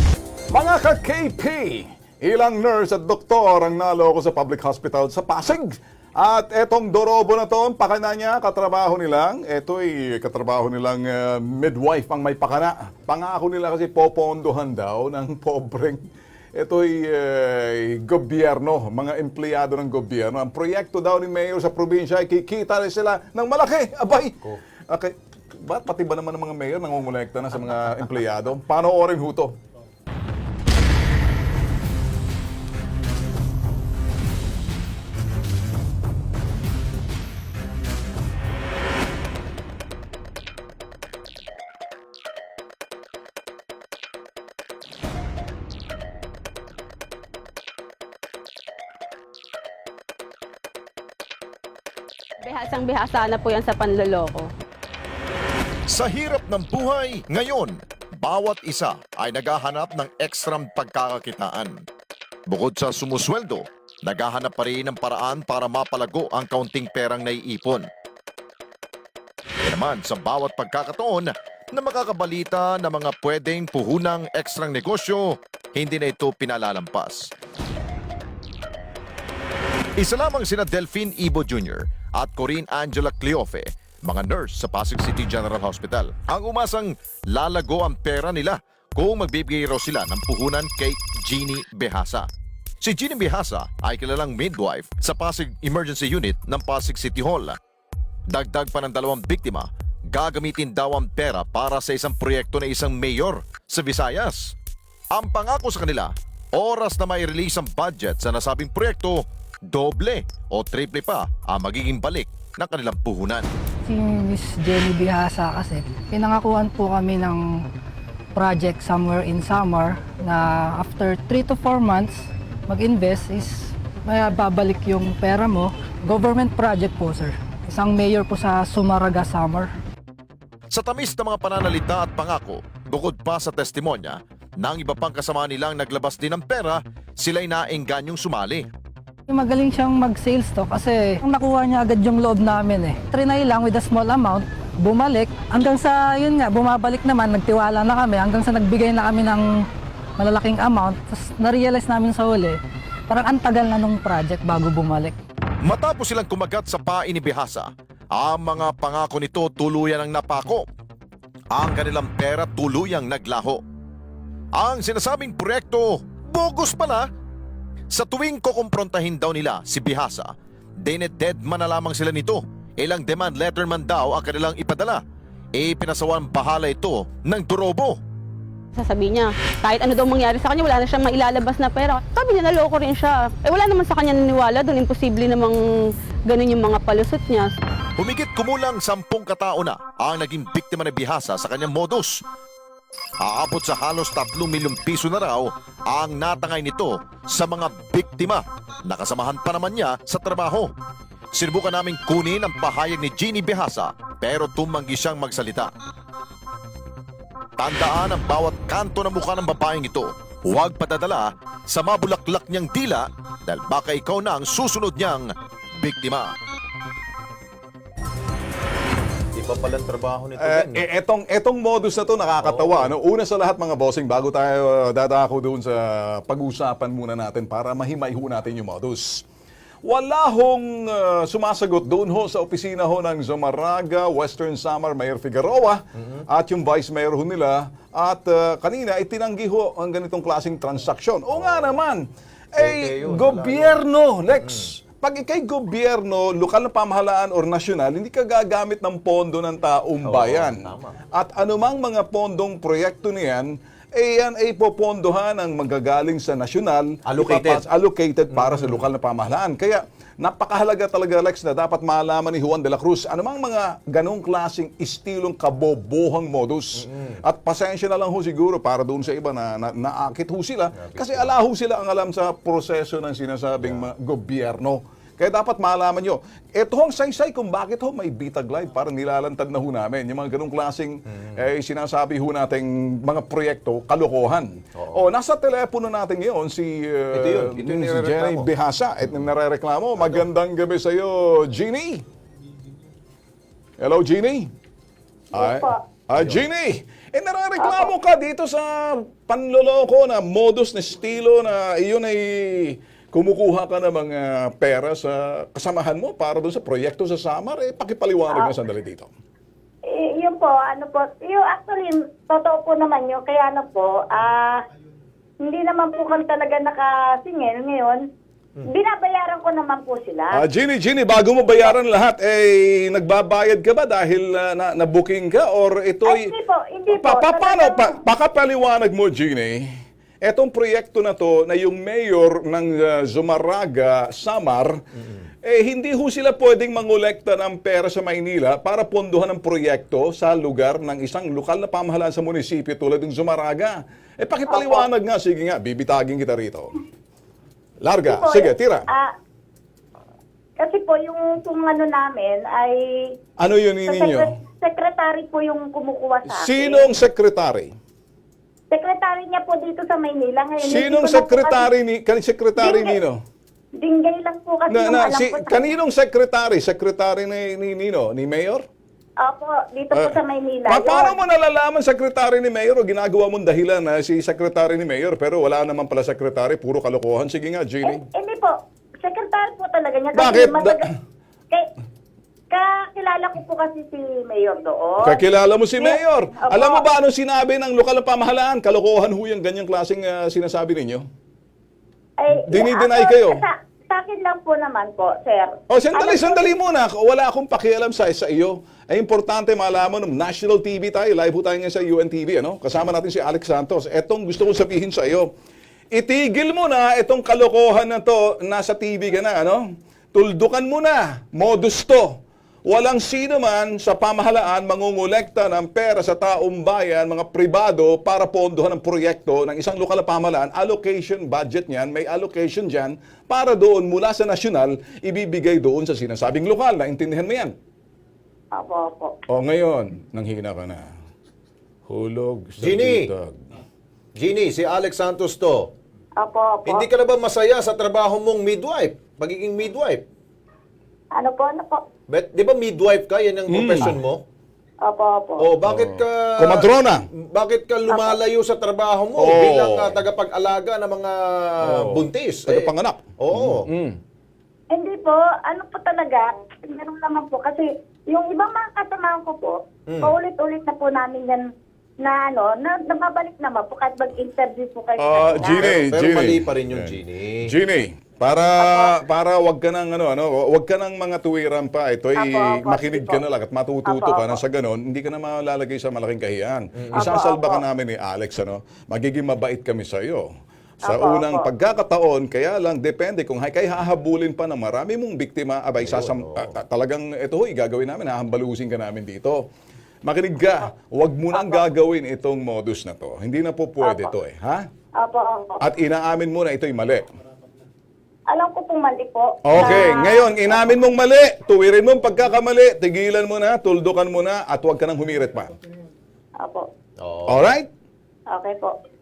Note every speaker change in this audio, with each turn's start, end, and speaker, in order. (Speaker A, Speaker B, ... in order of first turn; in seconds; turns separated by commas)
Speaker A: 0.5-16.0, Speaker A: 16.6-29.5, Speaker B: 52.4-54.5, Speaker C: 55.9-61.8, Speaker C: 62.5-67.9, Speaker C: 69.6-77.3, Speaker C: 80.0-92.3, Speaker C: 92.8-97.6, Speaker C: 98.3-104.5, Speaker C: 105.1-113.5, Speaker D: 113.9-117.6, Speaker D: 118.3-129.7, Speaker C: 130.7-138.7, Speaker D: 139.3-149.6, Speaker D: 150.2-155.1, Speaker C: 155.6-160.7, Speaker C: 161.5-163.6, Speaker C: 164.5-167.1, Speaker C: 167.9-175.0, Speaker C: 175.5-178.0, Speaker B: 178.7-187.5, Speaker C: 187.9-192.2, Speaker C: 193.2-200.7, Speaker C: 201.3-205.7, Speaker C: 207.6-216.3, Speaker E: 219.3-220.8, Speaker A: 220.4-229.2, Speaker E: 222.4-222.9, Speaker A: 229.8-242.0, Speaker E: 236.0-236.2, Speaker E: 241.3-241.8, Speaker A: 242.5-292.0, Speaker E: 242.6-243.8, Speaker E: 244.4-244.7, Speaker E: 250.0-250.9, Speaker E: 257.1-257.6, Speaker E: 258.3-258.8, Speaker E: 266.8-267.2, Speaker E: 270.8-271.4, Speaker E: 273.6-273.9, Speaker E: 284.8-285.1, Speaker E: 287.1-288.5, Speaker E: 290.0-290.2, Speaker A: 293.8-294.5, Speaker F: 295.3-295.8, Speaker A: 295.3-309.1, Speaker F: 297.6-297.9, Speaker F: 309.9-314.6, Speaker F: 315.4-318.0, Speaker F: 318.7-320.4, Speaker A: 320.3-326.3, Speaker F: 326.1-328.0, Speaker A: 326.9-329.6, Speaker A: 330.2-334.8, Speaker A: 335.4-346.7, Speaker F: 344.5-344.9, Speaker A: 347.8-348.9, Speaker F: 348.1-349.1, Speaker F: 350.6-352.8, Speaker A: 353.4-354.3, Speaker F: 353.9-356.9, Speaker A: 356.2-357.7, Speaker F: 358.7-361.7, Speaker A: 360.6-363.2, Speaker F: 362.6-362.9, Speaker F: 363.8-365.6, Speaker A: 364.7-368.6, Speaker F: 369.2-371.1, Speaker A: 369.9-378.0, Speaker F: 377.8-380.8, Speaker A: 380.1-380.8, Speaker F: 382.5-385.2, Speaker A: 385.0-391.0, Speaker F: 385.8-386.8, Speaker F: 392.2-396.5, Speaker A: 392.3-393.4, Speaker A: 395.7-405.3, Speaker A: 405.9-409.6, Speaker A: 410.1-427.5, Speaker F: 428.5-429.1, Speaker A: 429.3-430.8, Speaker A: 431.9-433.5, Speaker E: 432.6-433.1, Speaker E: 434.1-435.7, Speaker F: 436.2-436.9, Speaker E: 436.6-440.0, Speaker F: 441.1-441.8, Speaker E: 442.1-444.2, Speaker A: 443.5-444.0, Speaker F: 444.8-445.5, Speaker E: 445.4-446.6, Speaker A: 445.6-447.0, Speaker E: 447.3-452.7, Speaker F: 447.9-448.2, Speaker A: 449.2-450.0, Speaker A: 451.6-454.0, Speaker E: 453.2-453.7, Speaker F: 454.7-461.4, Speaker E: 459.9-460.1, Speaker F: 462.0-465.7, Speaker A: 465.0-480.2, Speaker E: 465.1-467.4, Speaker F: 468.6-468.9, Speaker F: 472.1-473.2, Speaker F: 473.9-474.4, Speaker E: 476.8-477.1, Speaker F: 476.9-477.6, Speaker F: 480.8-481.5, Speaker A: 480.9-489.4, Speaker E: 485.8-486.6, Speaker A: 490.0-494.6, Speaker F: 491.3-491.6, Speaker F: 493.8-494.1, Speaker F: 495.0-495.6, Speaker A: 495.6-497.0, Speaker F: 498.3-500.8, Speaker A: 499.4-505.5, Speaker E: 507.0-507.5, Speaker A: 507.3-507.7, Speaker F: 508.3-508.7